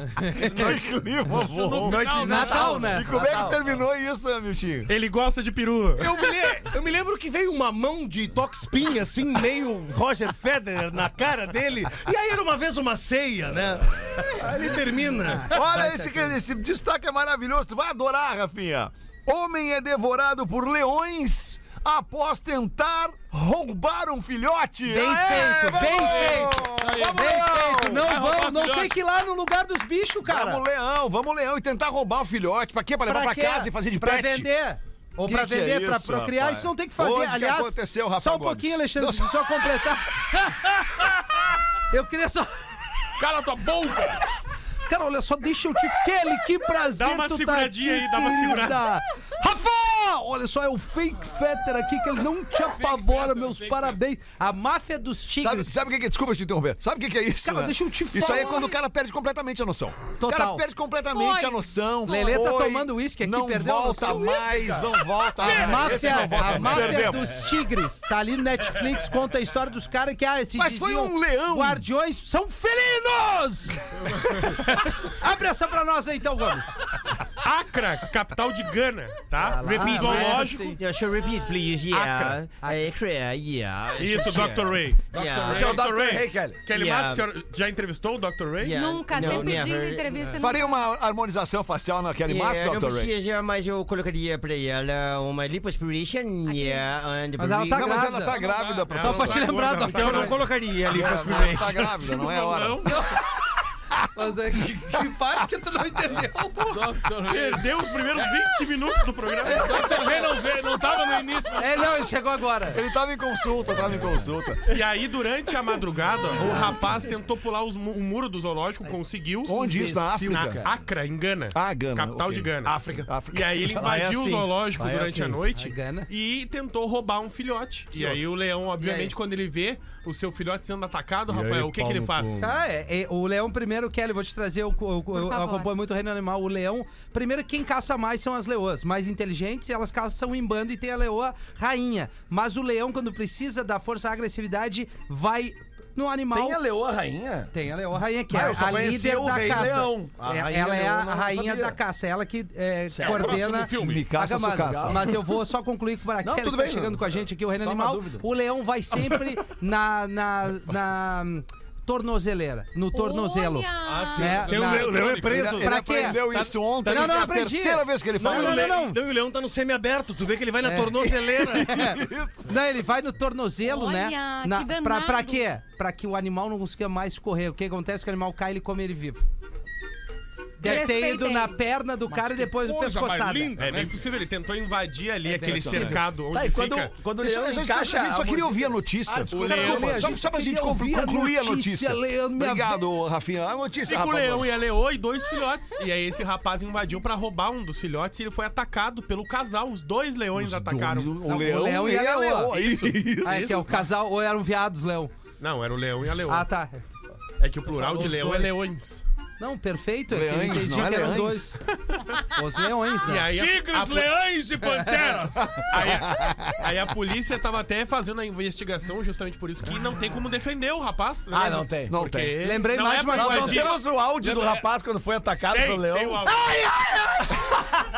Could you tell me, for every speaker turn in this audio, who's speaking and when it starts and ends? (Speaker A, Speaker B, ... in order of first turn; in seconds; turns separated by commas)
Speaker A: 0.2-0.7, Speaker B: 0.3-4.9, Speaker C: 1.3-2.9, Speaker D: 1.7-3.6, Speaker A: 2.2-3.1, Speaker E: 4.9-6.2, Speaker F: 6.0-15.5, Speaker A: 15.3-16.3, Speaker B: 15.5-28.1, Speaker A: 24.9-30.6, Speaker C: 25.6-27.4, Speaker C: 27.9-29.0, Speaker B: 30.2-34.5, Speaker A: 33.1-40.2, Speaker B: 35.2-39.4, Speaker C: 40.5-41.4, Speaker A: 41.9-42.8, Speaker C: 43.2-44.2, Speaker A: 44.9-55.7, Speaker E: 47.0-48.9, Speaker C: 52.6-54.0, Speaker B: 55.4-67.5, Speaker A: 57.4-58.8, Speaker A: 60.2-60.6, Speaker G: 61.1-61.5, Speaker A: 62.1-64.6, Speaker A: 65.4-76.8, Speaker C: 65.4-66.5, Speaker B: 70.5-71.8, Speaker E: 77.4-80.8, Speaker A: 79.4-80.8, Speaker H: 80.1-85.8, Speaker E: 81.9-82.4, Speaker E: 84.0-89.6, Speaker D: 85.5-86.7, Speaker H: 86.7-87.3, Speaker H: 88.6-90.1, Speaker G: 88.7-90.8, Speaker B: 90.3-93.1, Speaker H: 92.3-98.0, Speaker G: 96.5-96.8, Speaker A: 97.4-98.4, Speaker B: 97.7-99.7, Speaker C: 98.3-98.9, Speaker E: 98.9-100.5, Speaker A: 99.0-100.4, Speaker F: 99.8-101.9, Speaker B: 100.9-102.9, Speaker E: 102.0-103.0, Speaker A: 102.8-103.2, Speaker A: 104.2-106.9, Speaker C: 106.7-107.7, Speaker E: 107.2-110.2, Speaker A: 109.5-109.9, Speaker C: 109.5-111.9, Speaker A: 111.6-112.8, Speaker B: 112.7-114.7, Speaker E: 114.7-119.6, Speaker B: 119.5-120.6, Speaker D: 119.5-120.7, Speaker E: 120.2-132.5, Speaker B: 121.5-122.5, Speaker D: 122.7-124.0, Speaker B: 123.1-123.8, Speaker F: 123.9-125.4, Speaker A: 125.5-126.1, Speaker A: 128.8-129.1, Speaker F: 131.3-132.4, Speaker A: 132.4-146.6, Speaker G: 135.1-135.7, Speaker D: 146.3-147.5, Speaker A: 147.5-169.0, Speaker D: 148.3-151.8, Speaker C: 153.0-154.1, Speaker B: 153.8-155.1, Speaker D: 154.6-155.1, Speaker D: 156.2-158.2, Speaker G: 162.9-164.5, Speaker F: 163.8-166.5, Speaker E: 164.5-165.3, Speaker B: 165.2-168.8, Speaker F: 168.2-171.7, Speaker A: 170.6-179.3, Speaker B: 171.0-172.6, Speaker G: 173.6-175.5, Speaker A: 180.6-183.6, Speaker G: 180.6-181.6, Speaker C: 182.1-184.1, Speaker E: 183.6-187.0, Speaker A: 185.3-185.9, Speaker B: 185.4-186.0, Speaker D: 185.6-189.6, Speaker B: 187.2-194.5, Speaker E: 189.3-190.1, Speaker A: 189.3-192.8, Speaker E: 193.9-201.2, Speaker B: 200.3-203.7, Speaker A: 201.2-202.6, Speaker E: 202.5-203.8, Speaker A: 203.2-205.1, Speaker E: 205.4-206.5, Speaker A: 206.3-206.9, Speaker E: 207.4-209.0, Speaker A: 207.7-208.5, Speaker A: 209.4-211.6, Speaker B: 210.1-211.6, Speaker A: 212.3-213.3, Speaker E: 213.0-214.2, Speaker C: 213.3-215.6, Speaker A: 214.8-215.1, Speaker B: 215.5-216.6, Speaker E: 215.7-223.8, Speaker D: 221.3-222.0, Speaker B: 221.9-222.4, Speaker A: 222.4-223.6, Speaker D: 223.1-226.3, Speaker C: 224.2-224.7, Speaker E: 225.5-226.5, Speaker A: 226.2-227.6